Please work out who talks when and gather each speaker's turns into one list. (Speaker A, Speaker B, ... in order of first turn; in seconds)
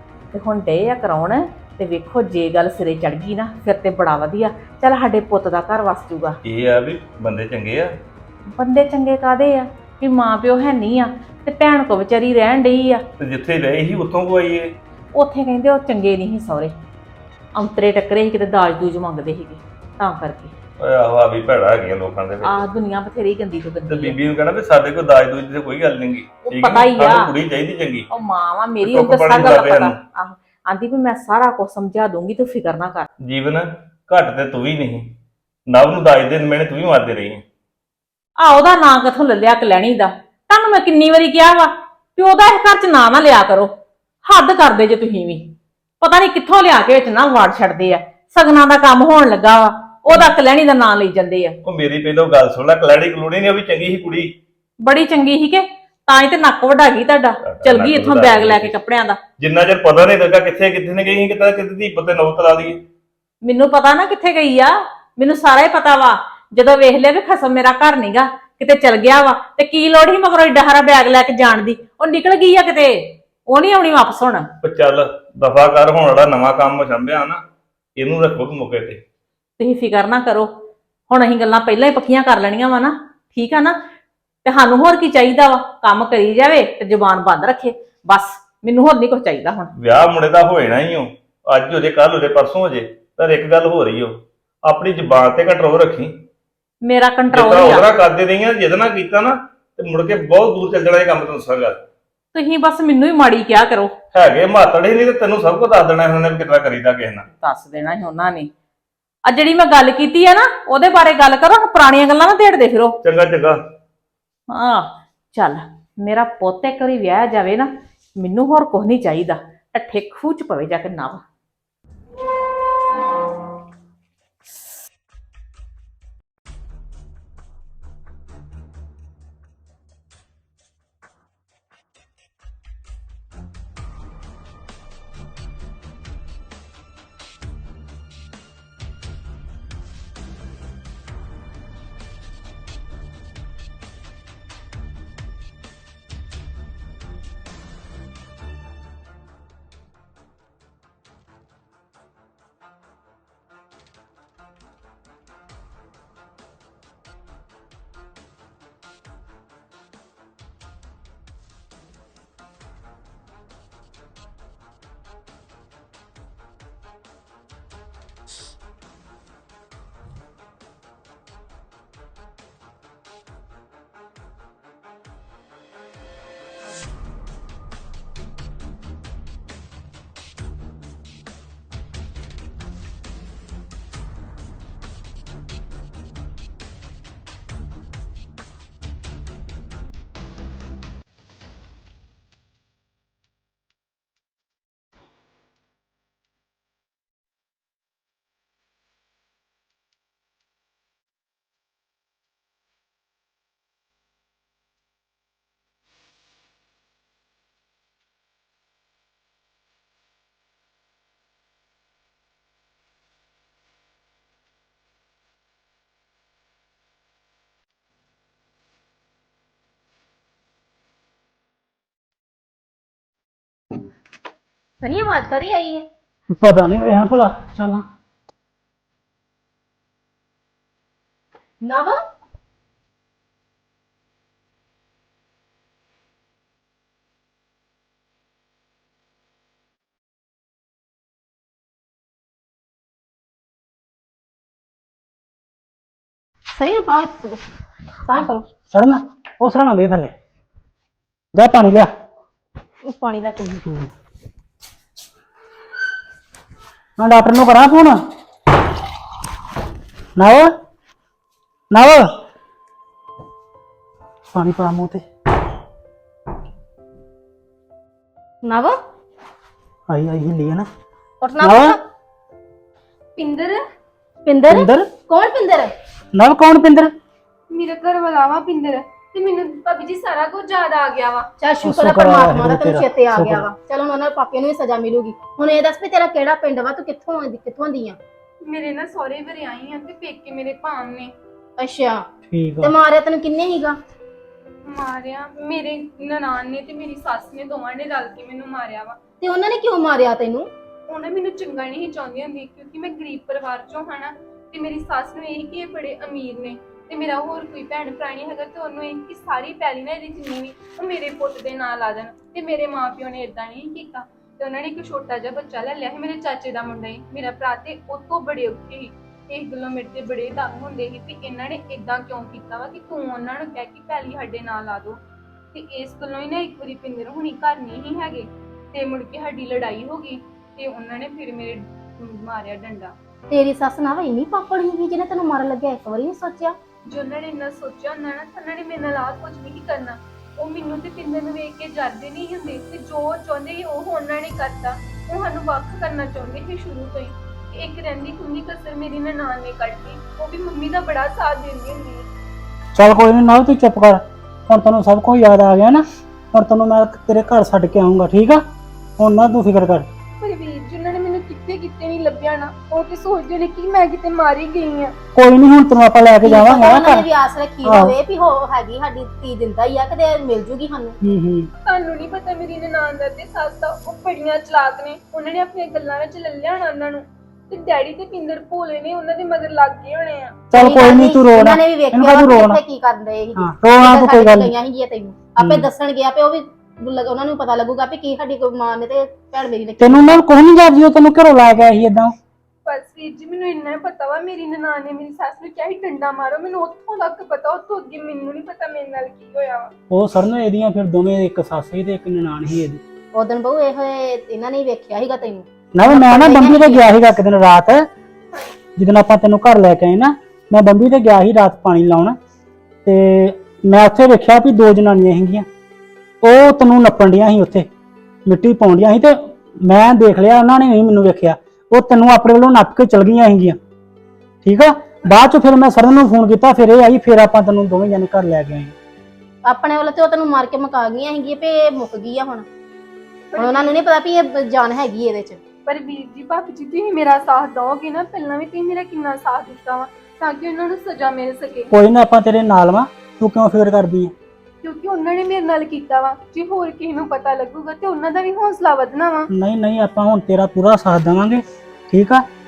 Speaker A: 0.3-6.4, 8.6-13.0, 15.1-16.7, 17.6-20.5, 22.4-24.2, 26.5-27.3, 28.1-33.1, 38.4-43.7, 44.3-51.6, 54.8-59.2, 63.4-74.5, 79.6-80.5, 81.1-83.8, 84.5-89.7, 96.8-97.9, 102.3-103.9, 107.3-108.5, 109.3-113.0, 114.5-121.2
Speaker B: 6.4-7.9, 13.2-14.7, 20.8-22.7, 23.9-28.1, 28.8-30.0, 33.2-35.1, 35.7-37.4, 51.6-54.3, 57.5-58.8, 59.4-62.8, 74.6-77.4, 78.0-79.0, 89.8-96.2, 97.3-101.8, 104.1-107.2, 113.0-113.6
Speaker C: 224.8-225.9, 231.6-232.0, 246.6-247.4, 248.1-248.4, 252.8-253.7, 268.4-268.8, 271.2-271.8, 274.2-275.7, 281.4-288.0, 291.6-292.0, 292.6-293.8, 299.2-300.5, 333.3-336.6, 366.2-371.0, 380.5-390.2, 403.1-407.0, 429.4-432.5, 433.4-435.4
Speaker D: 226.3-227.8, 248.7-250.1, 251.3-251.9, 257.0-258.0, 260.2-260.5, 261.7-262.1, 264.3-265.0, 269.9-270.7, 271.4-271.8, 274.5-274.9, 276.1-276.9, 281.6-283.5, 292.3-292.7, 352.8-358.4, 359.0-359.9, 365.1-367.1, 367.6-368.0, 371.0-371.5, 380.5-382.6, 383.4-384.5, 385.4-385.7, 389.8-392.1, 399.9-402.8, 405.8-407.9, 408.8-412.2, 412.9-415.5, 416.2-417.7, 418.3-423.6, 424.4-428.8, 441.7-444.1, 449.3-452.2
Speaker E: 273.2-273.6, 277.5-281.3, 288.5-291.1, 294.7-299.0, 300.9-325.0, 325.5-332.9, 336.9-352.1, 360.2-364.9, 371.7-380.4, 392.7-399.7, 433.3-433.8, 435.7-441.7, 444.6-449.3